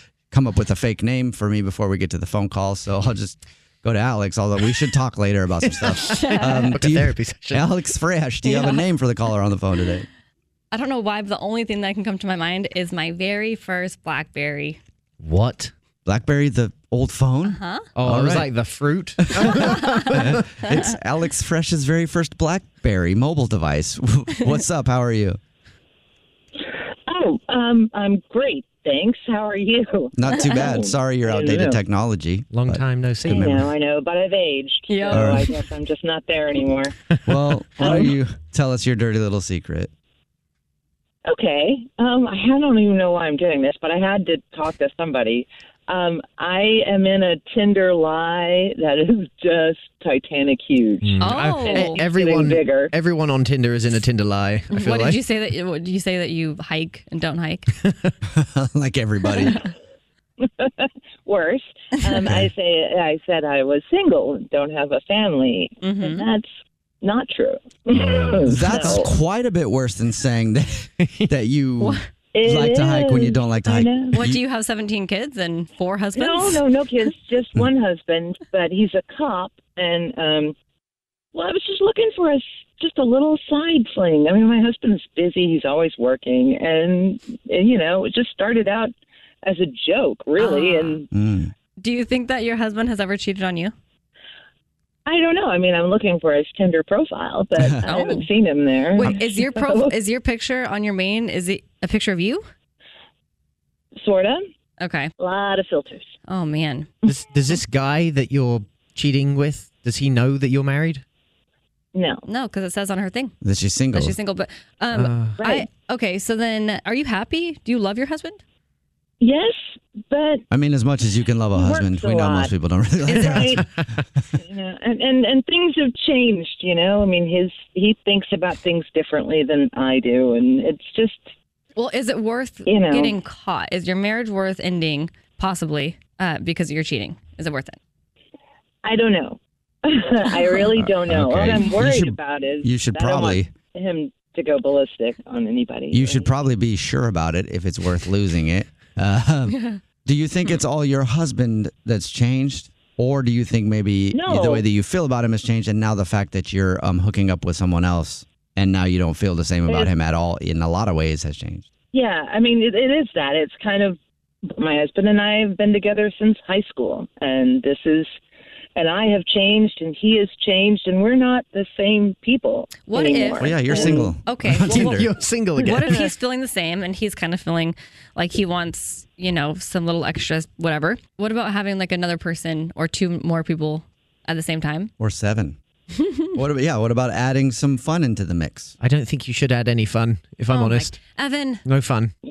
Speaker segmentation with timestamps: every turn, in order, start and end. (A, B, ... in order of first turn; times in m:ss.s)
0:00.3-0:10.1 A
0:05.6-0:07.7 B
0:06.1-0:06.7 C
0:08.4-0:08.8 C
0:10.7-0:14.8 C
0:15.2-0:15.7 B
0:16.0-0:18.5 A
0:17.4-0:17.9 C
0:17.9-0:20.4 B
0:19.3-0:25.4 A
0:19.6-0:20.1 C
0:20.6-0:20.9 C
0:27.1-0:31.8 D
0:30.1-0:33.5 A
0:32.5-0:33.7 B
0:33.3-0:36.9 D
0:34.9-0:35.6 C
0:35.1-0:35.5 A
0:37.2-0:39.9 A
0:37.8-0:38.1 D
0:41.2-0:52.9 D
0:51.0-0:55.2 B
0:51.2-0:52.0 C
0:54.7-0:57.7 C
0:57.8-0:58.1 B
0:58.3-0:59.6 A
1:00.4-1:06.5 D
1:02.2-1:02.5 A
1:05.8-1:06.2 C
1:07.0-1:09.1 D
1:08.0-1:14.4 A
1:08.7-1:09.0 B
1:11.0-1:11.3 B
1:12.3-1:14.2 D
1:14.1-1:17.1 C
1:16.1-1:20.5 D
1:21.3-1:31.1 D
1:30.4-1:31.0 C
1:31.1-1:31.5 A
1:31.8-1:33.7 C
1:35.0-1:39.9 D
1:37.6-1:37.9 A
1:37.9-1:38.3 C
1:39.0-1:42.5 C
1:44.0-1:44.4 D
1:44.8-1:45.1 C
1:45.2-1:46.1 D
1:46.3-1:46.9 C
1:47.0-1:51.0 B
1:51.9-1:52.2 D
1:52.2-1:53.4 C
1:53.4-1:54.2 A
1:53.9-1:58.4 C
1:54.9-1:55.5 B
1:59.2-2:00.4 D
2:00.5-2:03.7 A
2:01.5-2:02.5 D
2:03.0-2:03.6 D
2:03.1-2:03.6 B
2:04.4-2:11.3 D
2:11.8-2:17.8 C
2:12.6-2:13.1 D
2:18.8-2:26.3 D
2:20.7-2:23.5 A
2:25.9-2:41.7 A
2:34.1-2:34.6 D
2:41.9-2:44.0 D
2:44.5-2:48.1 D
2:48.7-2:54.1 D
2:52.8-3:04.9 C
2:53.4-2:55.1 A
2:54.6-2:56.1 B
3:05.0-3:05.6 A
3:06.3-3:08.7 A
3:08.8-3:11.0 B
3:10.5-3:11.6 C
3:11.6-3:12.1 B